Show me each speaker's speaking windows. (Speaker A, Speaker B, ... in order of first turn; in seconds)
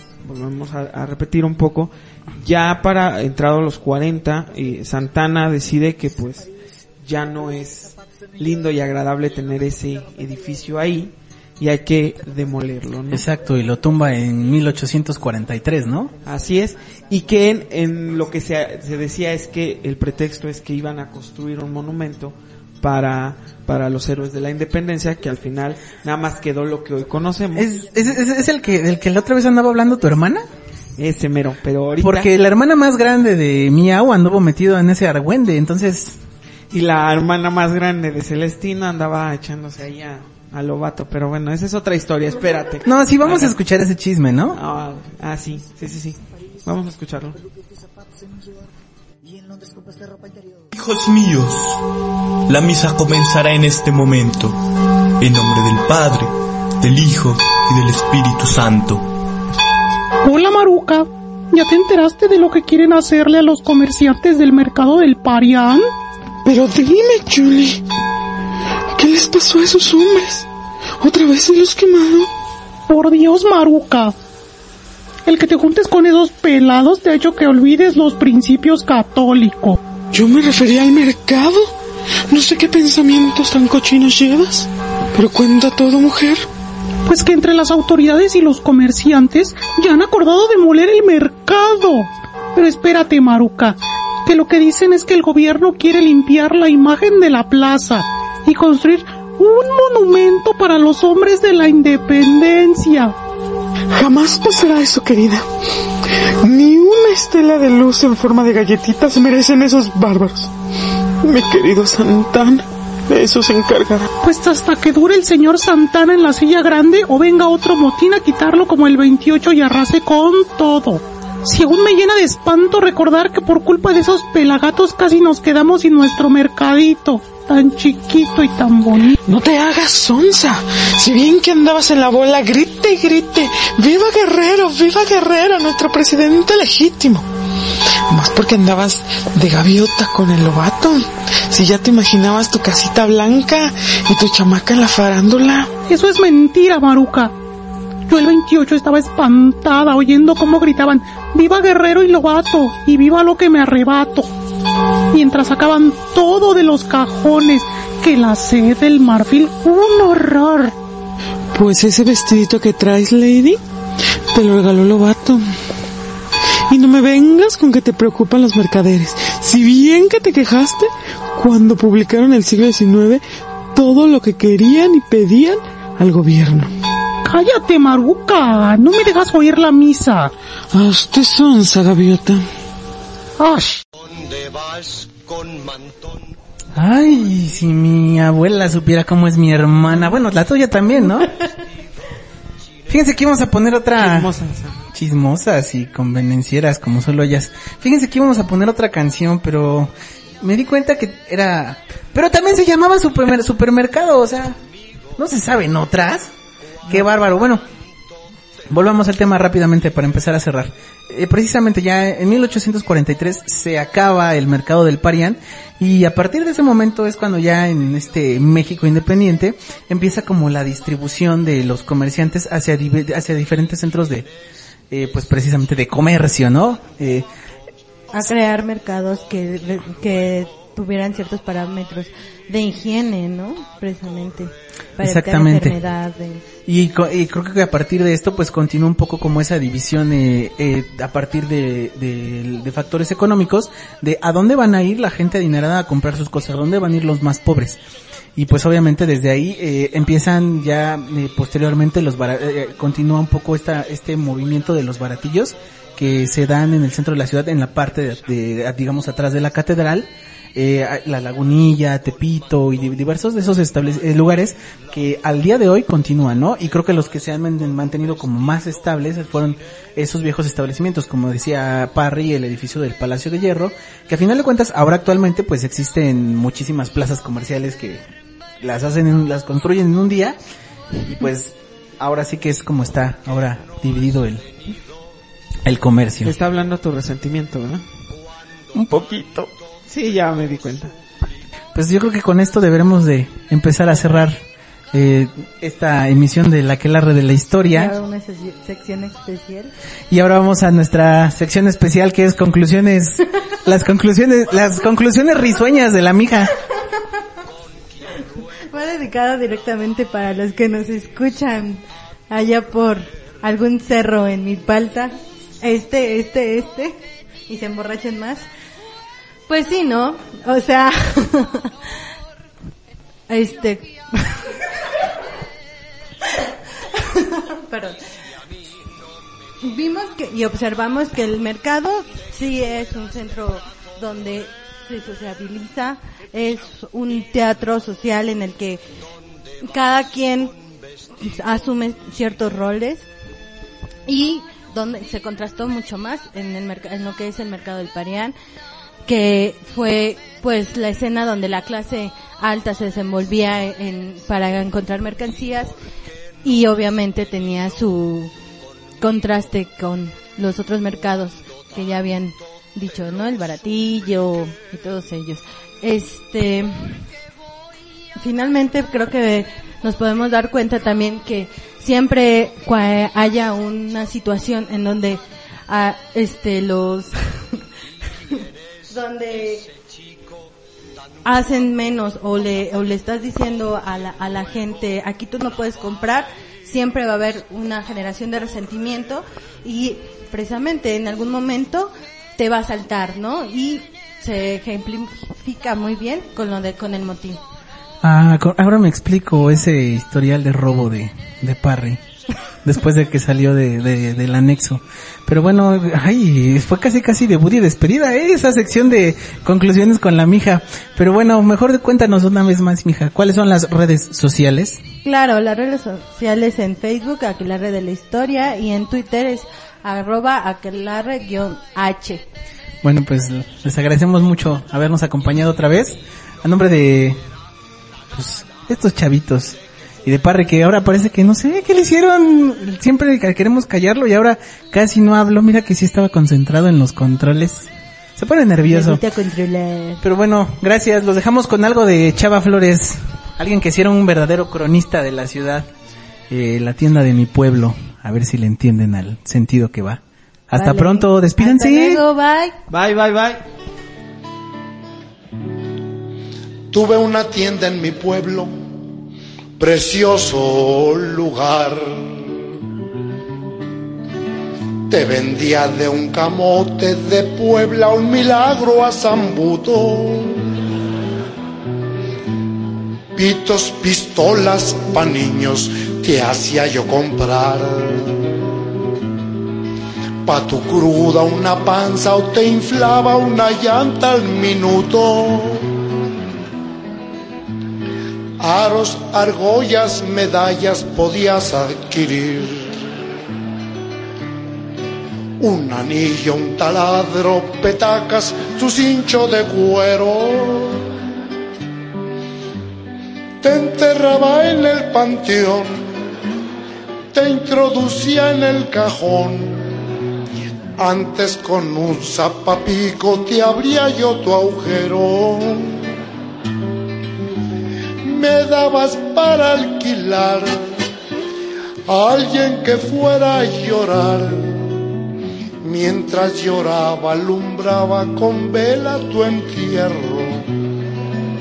Speaker A: 0.2-6.5, 7.0-13.2, 16.2-27.7, 31.0-32.3, 36.7-43.5, 44.5-47.4, 194.0-194.8, 286.2-287.8, 289.9-290.9, 452.7-453.4
Speaker B: 13.1-16.1, 27.5-30.5, 32.0-36.2, 42.9-44.6, 186.8-191.3, 192.9-194.3, 194.9-204.6, 205.2-206.3, 206.9-207.6, 208.7-224.3, 224.9-227.3, 235.0-235.8, 236.7-247.8, 248.4-278.0, 278.6-280.4, 281.0-284.5, 285.6-286.4, 288.7-289.5, 291.7-297.9, 300.1-306.5, 398.0-402.0, 402.6-414.8, 422.8-427.2, 428.1-439.0, 440.0-445.7, 446.3-452.0
Speaker C: 50.8-51.6, 52.5-54.5, 55.2-56.3, 56.8-59.0
Speaker D: 60.2-65.9, 72.9-74.2, 75.3-79.8, 87.1-103.2, 114.2-129.2, 145.9-147.3, 148.1-154.3, 155.1-160.7, 177.2-180.3, 183.4-183.8
Speaker E: 66.5-67.8, 68.9-70.5, 71.0-72.3, 80.1-81.7, 82.3-86.5, 104.0-105.5, 106.3-110.5, 111.2-114.1, 129.3-137.3, 138.1-145.7, 161.5-163.6, 164.3-165.5, 166.7-173.2, 173.7-176.7, 180.7-182.4
Speaker F: 228.1-236.4, 297.7-299.7, 308.7-317.0, 317.5-318.4, 319.5-321.7, 323.3-324.6, 326.9-328.0, 329.6-338.8, 339.6-340.6, 341.2-343.1, 344.1-348.4, 349.1-355.7, 356.4-358.3, 359.0-367.1, 368.2-377.6, 378.9-379.7, 381.2-397.4, 415.0-422.2, 438.7-440.0, 450.6-452.6
Speaker G: 456.7-458.5, 459.6-462.4, 464.9-470.4, 473.1-478.3, 480.2-485.7, 488.4-492.8, 495.4-500.8, 503.4-505.9, 507.1-509.6, 510.8-515.9, 518.0-520.6, 521.9-524.7, 525.6-530.5